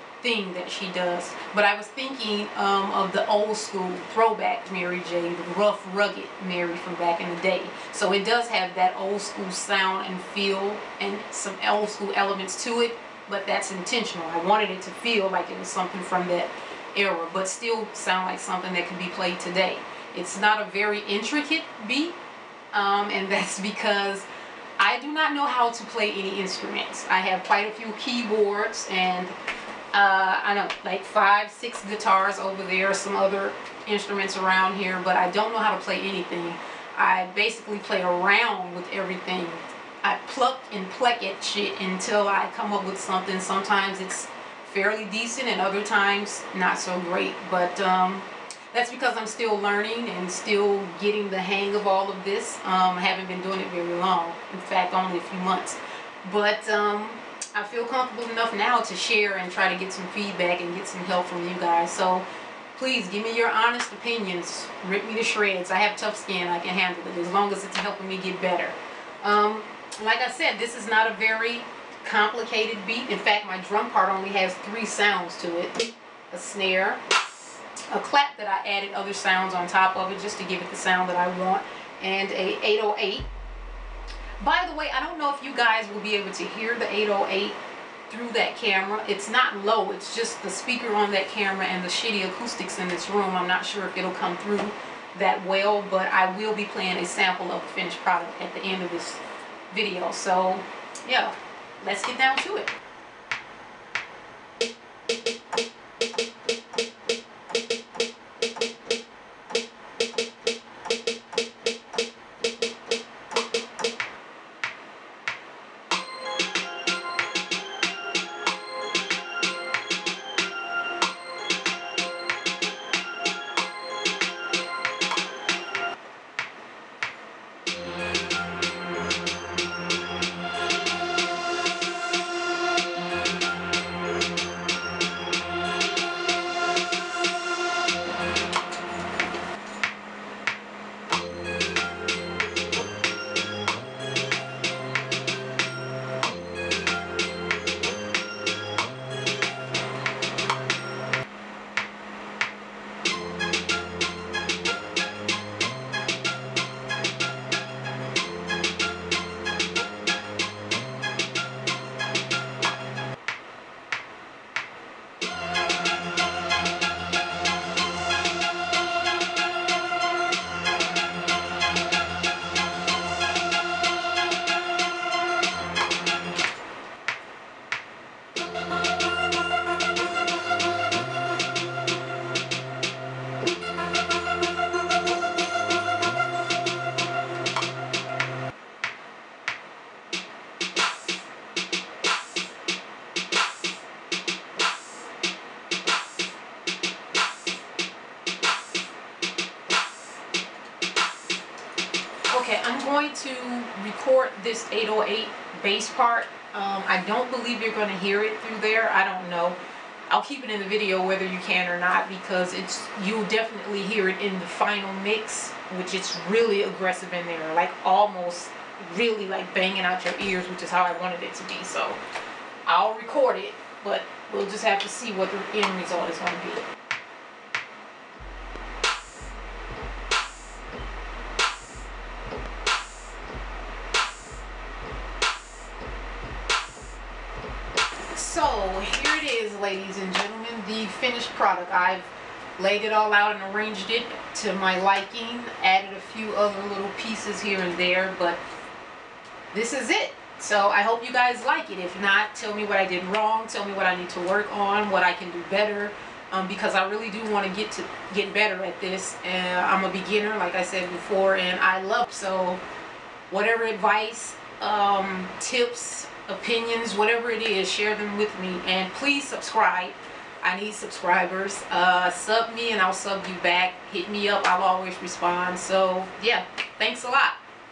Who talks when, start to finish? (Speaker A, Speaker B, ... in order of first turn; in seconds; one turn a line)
Speaker A: 0.2-22.2
Speaker A: 22.7-24.3
Speaker A: 24.8-29.3
Speaker A: 29.9-77.0
Speaker A: 77.9-83.3
Speaker A: 84.4-102.7
Speaker A: 202.3-222.0
Speaker A: 222.7-226.6
Speaker A: 238.1-248.4
Speaker A: 249.5-262.6
Speaker A: 263.3-277.4